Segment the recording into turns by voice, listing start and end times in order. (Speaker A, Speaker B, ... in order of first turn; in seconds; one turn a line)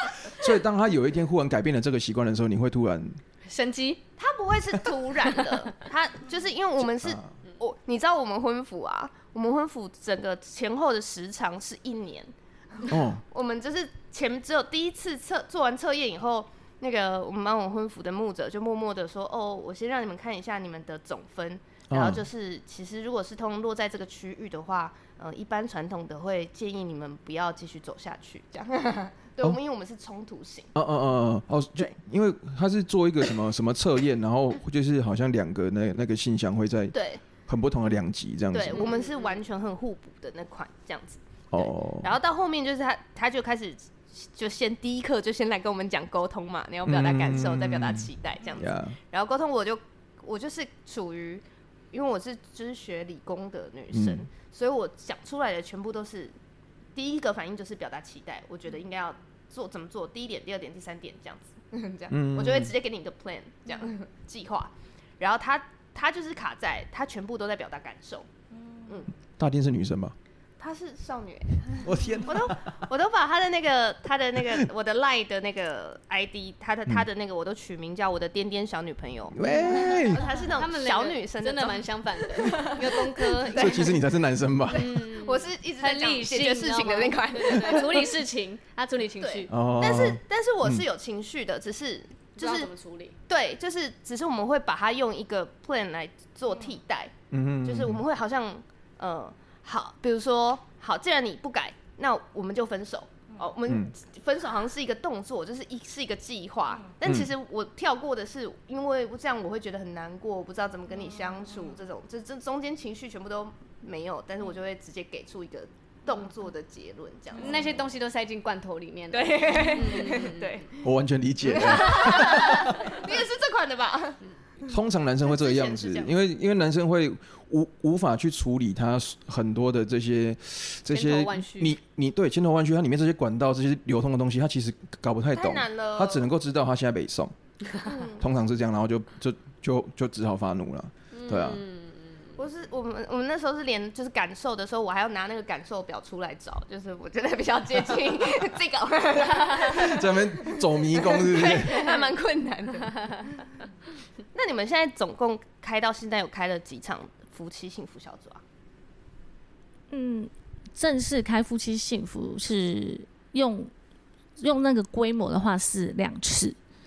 Speaker A: 0.3-3.2
Speaker B: 3.5-4.0
Speaker C: 4.2-30.7
Speaker A: 6.8-7.3
Speaker A: 12.9-13.2
Speaker A: 21.9-22.2
Speaker A: 30.8-38.9
Speaker C: 36.9-37.2
Speaker C: 38.5-56.4
Speaker B: 38.7-39.4
Speaker A: 41.5-42.1
Speaker A: 46.9-49.0
Speaker A: 53.9-54.3
Speaker C: 57.0-68.3
Speaker A: 62.1-62.7
Speaker C: 68.9-69.1
Speaker A: 69.3-70.2
Speaker C: 70.6-84.0
Speaker A: 71.8-72.8
Speaker A: 79.3-80.3
Speaker B: 79.4-84.0
Speaker A: 83.5-85.0
Speaker B: 84.7-89.5
Speaker C: 84.8-88.2
Speaker C: 89.2-92.7
Speaker A: 89.5-90.8
Speaker B: 92.4-93.2
Speaker C: 93.3-97.1
Speaker A: 97.3-98.0
Speaker C: 97.7-117.9
Speaker A: 103.7-103.9
Speaker A: 107.0-107.3
Speaker B: 117.4-120.5
Speaker C: 119.1-120.8
Speaker A: 120.8-123.0
Speaker C: 121.4-124.2
Speaker B: 121.6-122.6
Speaker A: 124.7-137.3
Speaker C: 125.2-126.1
Speaker B: 130.9-131.8
Speaker C: 135.3-136.3
Speaker C: 137.8-138.2
Speaker A: 138.2-141.6
Speaker B: 141.1-142.4
Speaker C: 142.4-153.4
Speaker A: 149.6-152.0
Speaker C: 154.3-158.4
Speaker D: 159.9-163.7
Speaker D: 164.4-166.6